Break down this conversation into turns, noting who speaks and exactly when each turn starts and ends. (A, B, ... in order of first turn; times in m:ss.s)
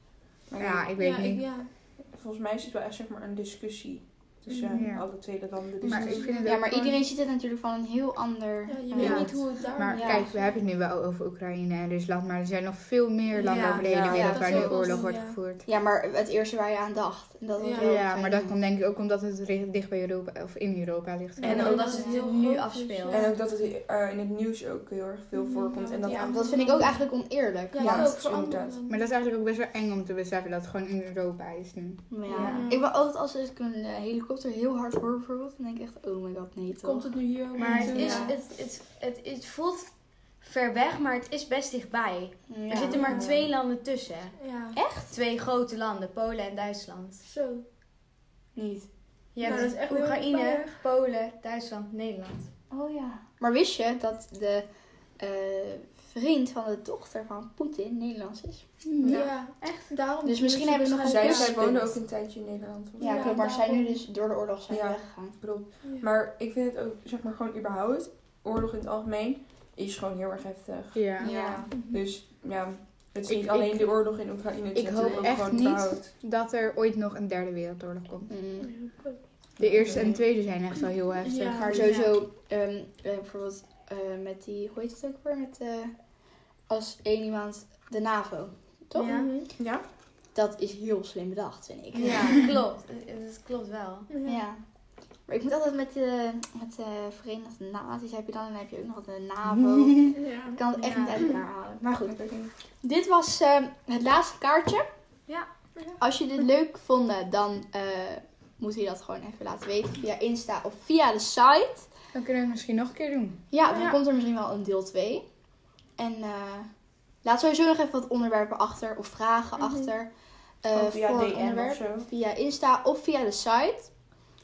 0:00.5-0:00.9 A
0:00.6-0:01.5 B
0:01.0-0:01.7 C
0:01.9-0:06.4 A
0:04.5-0:04.9 C
0:04.7-0:07.0 B
0:05.9-0:10.6 D
0:06.2-0:06.5 C
0:08.7-0:10.3 C
0:08.9-0:15.6 B
0:13.4-0:14.3 E
0:13.4-0:15.4 C
0:14.1-0:15.0 D
0:15.6-0:18.6 D
0:17.6-0:18.0 C
0:17.8-0:21.7 B
0:21.4-0:23.3 C
0:21.4-0:21.9 A
0:21.4-0:23.2 E
0:21.8-0:22.2 D
0:23.1-0:26.6 A
0:25.3-0:27.1 C
0:26.1-0:28.4 D
0:27.7-0:29.0 C
0:27.8-0:28.8 A
0:28.9-0:32.5 B
0:32.1-0:38.3 D
0:32.3-0:32.7 E
0:32.3-0:32.9 C
0:36.8-0:38.4 C
0:37.5-0:38.3 B
0:37.6-0:47.2 E
0:42.5-0:43.3 D
0:42.9-0:43.5 C
0:44.4-0:44.8 C
0:44.7-0:45.1 D
0:47.2-0:47.6 C
0:48.5-0:48.9 D
0:49.3-0:52.5 E
0:49.4-0:50.8 C
0:52.7-0:54.6 D
0:55.2-0:59.2 D
0:58.9-0:59.3 B
0:59.0-1:01.6 C
1:00.2-1:02.0 D
1:01.0-1:03.4 A
1:03.0-1:05.4 D
1:03.0-1:04.0 C
1:04.7-1:16.1 A
1:10.9-1:11.4 B
1:11.2-1:11.9 D
1:11.7-1:12.0 C
1:13.3-1:13.9 B
1:14.7-1:18.3 B
1:18.3-1:18.7 D
1:18.6-1:19.2 C
1:19.6-1:20.0 A
1:19.6-1:22.1 B
1:19.9-1:20.2 D
1:21.2-1:21.8 C
1:21.6-1:25.9 D
1:21.7-1:22.1 E
1:26.7-1:29.4 D
1:29.0-1:29.3 E
1:29.0-1:29.5 C
1:29.6-1:29.8 A
1:30.3-1:32.3 D
1:31.9-1:34.1 E
1:34.1-1:34.4 C
1:34.2-1:34.6 D
1:35.3-1:42.2 D
1:40.1-1:40.6 C
1:40.8-1:41.2 E
1:42.1-1:42.5 A
1:42.8-1:44.8 D
1:46.0-1:51.9 D
1:52.1-1:53.5 B
1:53.5-1:55.2 D
1:53.7-1:54.0 C
1:56.0-1:56.7 D
1:57.2-2:00.1 D
1:59.6-1:59.8 C
2:00.6-2:03.9 D
2:00.7-2:02.1 A